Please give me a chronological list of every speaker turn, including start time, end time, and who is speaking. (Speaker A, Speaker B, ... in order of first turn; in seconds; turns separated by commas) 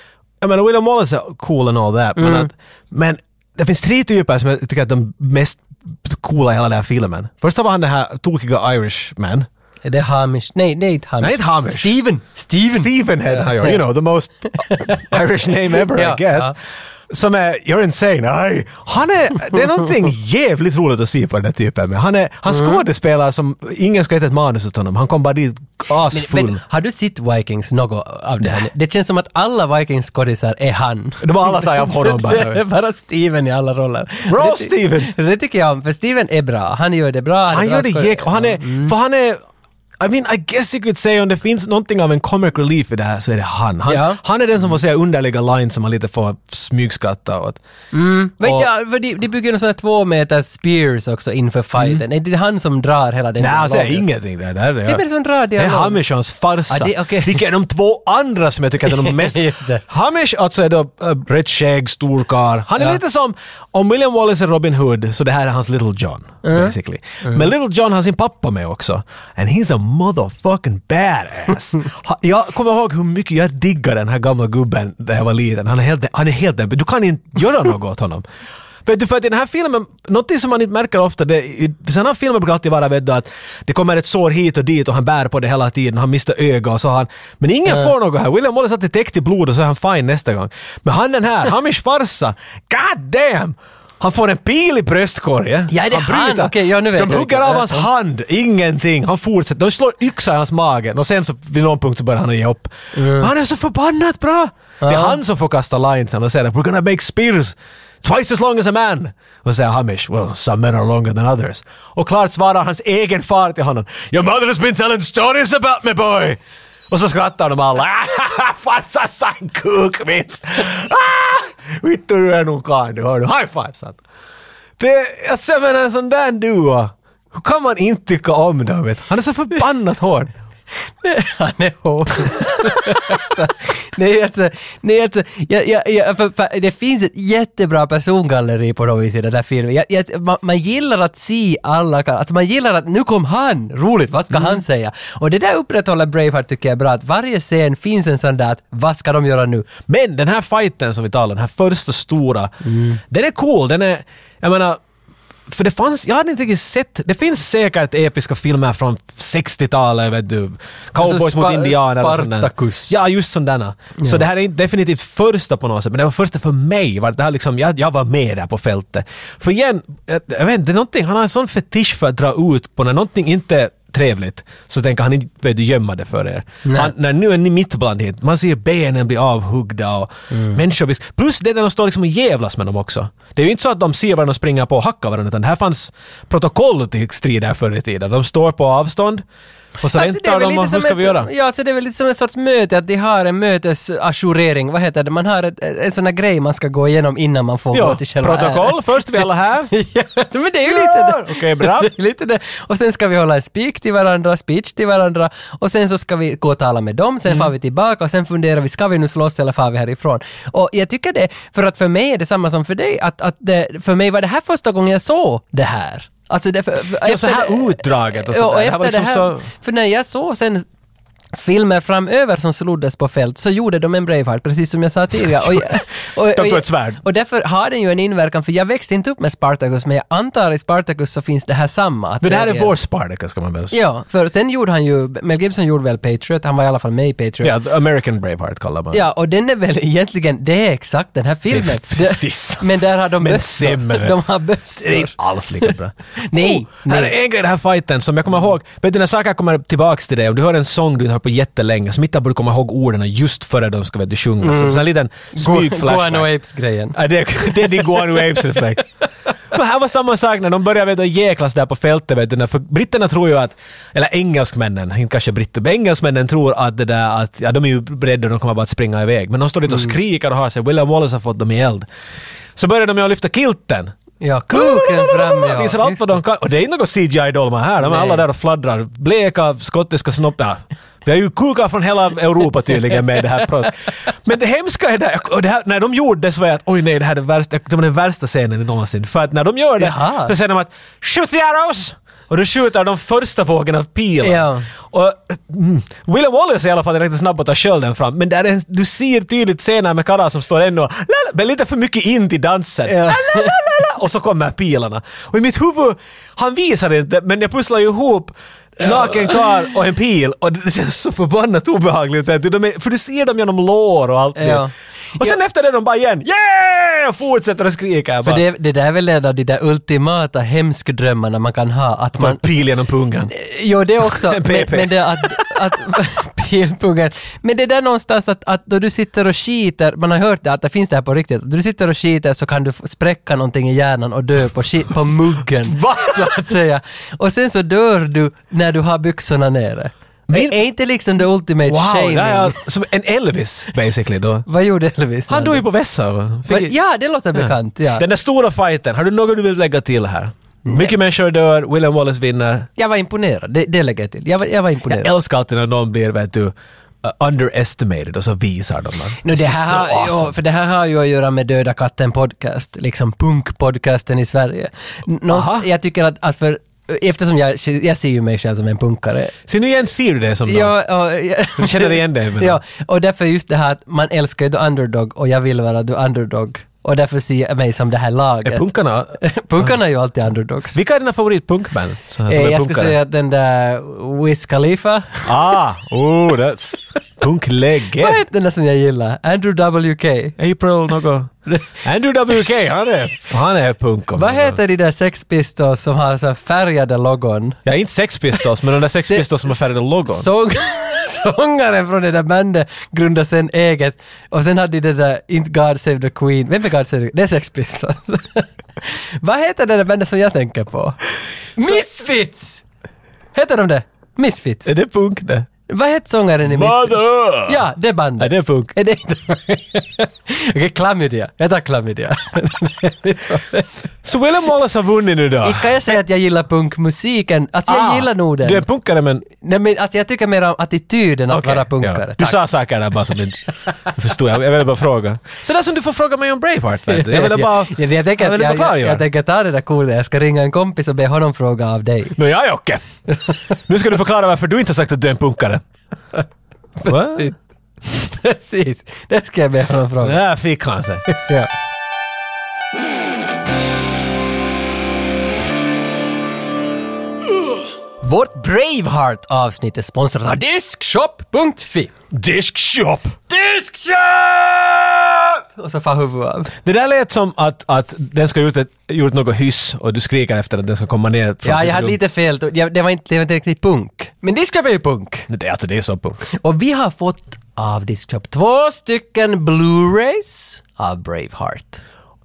Speaker A: 0.4-9.5, Speaker B: 2.2-2.5, Speaker B: 9.8-13.8, Speaker A: 11.2-11.9, Speaker A: 12.7-16.6, Speaker B: 14.7-15.0, Speaker B: 15.7-16.5, Speaker A: 17.1-26.6, Speaker B: 22.5-22.8, Speaker B: 26.1-38.9, Speaker A: 28.4-28.7, Speaker A: 31.2-32.6, Speaker A: 34.3-35.1, Speaker A: 37.5-39.4, Speaker A: 40.0-47.6, Speaker B: 43.9-44.2, Speaker B: 47.9-54.0, Speaker A: 48.4-48.7, Speaker A: 51.8-52.0, Speaker A: 53.4-55.0, Speaker B: 54.9-56.0, Speaker A: 55.6-78.2, Speaker B: 56.7-57.4, Speaker B: 58.9-59.8, Speaker B: 66.4-67.4, Speaker A: 78.8-116.4, Speaker B: 95.7-97.9, Speaker B: 103.0-103.3, Speaker B: 104.8-105.2, Speaker A: 116.9-124.0, Speaker A: 124.8-130.3, Speaker B: 131.0-149.7, Speaker A: 144.3-144.6, Speaker A: 149.9-152.5, Speaker B: 152.7-153.0, Speaker A: 153.1-154.8, Speaker A: 155.5-189.2, Speaker B: 161.0-163.0, Speaker B: 164.0-164.2, Speaker B: 176.7-176.9, Speaker B: 180.3-180.6, Speaker A: 189.8-191.3, Speaker B: 189.9-220.7, Speaker A: 197.7-199.7, Speaker A: 200.7-201.9, Speaker A: 207.3-207.5, Speaker A: 217.0-219.5, Speaker B: 221.3-232.7, Speaker A: 225.2-227.0, Speaker A: 232.2-233.8, Speaker B: 233.7-237.5, Speaker A: 237.4-239.0, Speaker B: 238.9-245.7, Speaker A: 241.5-244.2, Speaker A: 244.8-256.3, Speaker B: 246.2-247.1, Speaker B: 254.4-258.6, Speaker A: 256.9-258.9, Speaker A: 259.5-271.9, Speaker A: 272.6-273.9, Speaker B: 274.2-276.1, Speaker A: 274.5-318.4, Speaker B: 277.8-278.2, Speaker B: 289.8-290.3, Speaker B: 294.2-294.7, Speaker B: 302.9-303.6, Speaker B: 308.8-309.4, Speaker B: 314.4-315.4, Speaker B: 318.2-322.4, Speaker A: 322.2-323.3, Speaker B: 323.3-342.6, Speaker A: 324.0-325.5, Speaker A: 335.6-336.5, Speaker A: 340.3-340.6, Speaker A: 341.6-344.5, Speaker B: 344.5-345.6, Speaker A: 345.3-346.8, Speaker B: 346.5-348.1, Speaker A: 347.3-352.7, Speaker B: 350.7-350.9, Speaker B: 352.8-355.1, Speaker A: 354.9-360.4, Speaker B: 359.2-369.4, Speaker A: 365.3-365.7, Speaker A: 369.5-370.8, Speaker B: 370.5-378.7, Speaker A: 371.6-372.6, Speaker A: 378.4-379.8, Speaker B: 379.2-380.8, Speaker A: 380.7-383.0, Speaker B: 382.3-385.3, Speaker A: 385.3-388.2, Speaker B: 388.0-390.4, Speaker A: 390.4-394.6, Speaker B: 391.5-391.7, Speaker B: 394.2-397.6, Speaker A: 397.7-400.3, Speaker B: 399.1-411.0, Speaker B: 411.6-412.6, Speaker B: 413.4-414.8, Speaker A: 414.6-415.5, Speaker B: 415.7-423.7, Speaker A: 416.4-417.6, Speaker A: 418.2-418.7, Speaker A: 424.0-425.9, Speaker B: 425.4-428.6, Speaker A: 427.7-429.2, Speaker B: 429.3-432.4, Speaker A: 431.3-439.1, Speaker B: 436.9-442.2, Speaker A: 442.2-442.8, Speaker A: 443.6-445.6, Speaker B: 446.8-447.4, Speaker A: 446.9-447.3, Speaker B: 447.9-450.2, Speaker A: 450.0-451.1, Speaker B: 451.1-451.5, Speaker B: 458.0-461.9, Speaker A: 462.1-463.2, Speaker B: 463.3-466.5, Speaker A: 466.6-472.0, Speaker B: 471.4-475.3, Speaker A: 475.3-476.2, Speaker B: 476.4-481.8